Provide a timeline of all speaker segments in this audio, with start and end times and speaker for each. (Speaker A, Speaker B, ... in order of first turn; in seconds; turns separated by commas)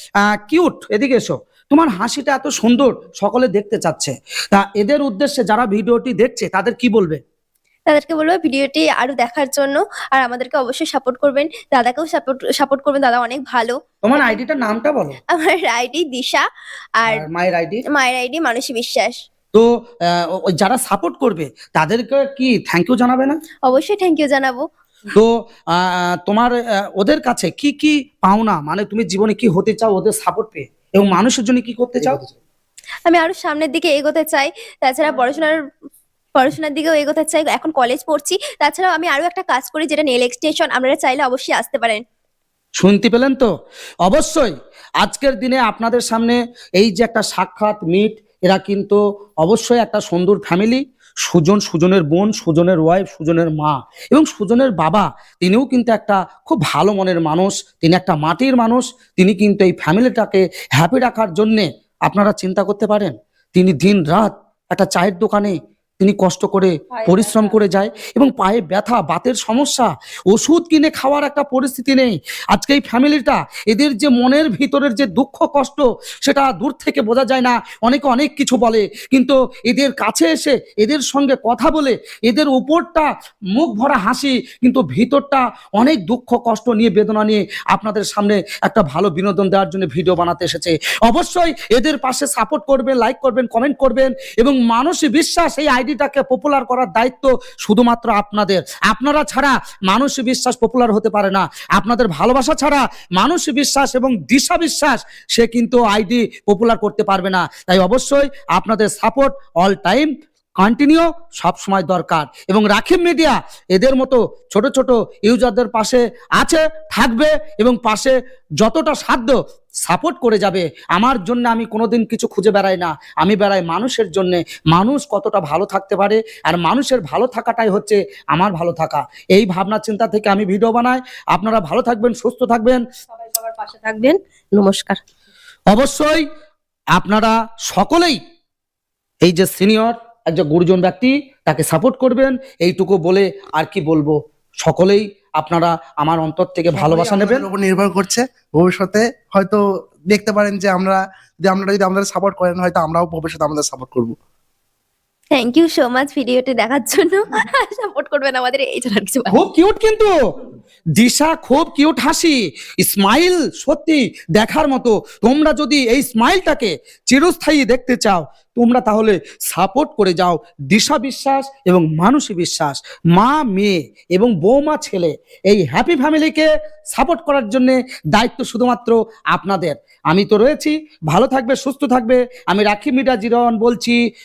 Speaker A: 0.2-7.2, Speaker B: 7.9-14.4, Speaker A: 14.0-15.2, Speaker B: 15.3-16.4, Speaker A: 17.1-17.8, Speaker B: 17.9-19.2, Speaker A: 19.5-23.4, Speaker B: 23.6-24.6, Speaker A: 25.1-32.2, Speaker C: 32.0-32.3, Speaker B: 33.1-35.6, Speaker B: 36.4-42.0, Speaker A: 42.8-43.5, Speaker A: 44.0-132.8, Speaker D: 66.9-67.6, Speaker D: 133.1-135.0, Speaker A: 135.7-136.2, Speaker A: 136.9-138.2, Speaker A: 139.2-147.4, Speaker C: 146.7-154.1, Speaker B: 155.3-159.4, Speaker A: 159.3-160.1, Speaker A: 161.0-184.0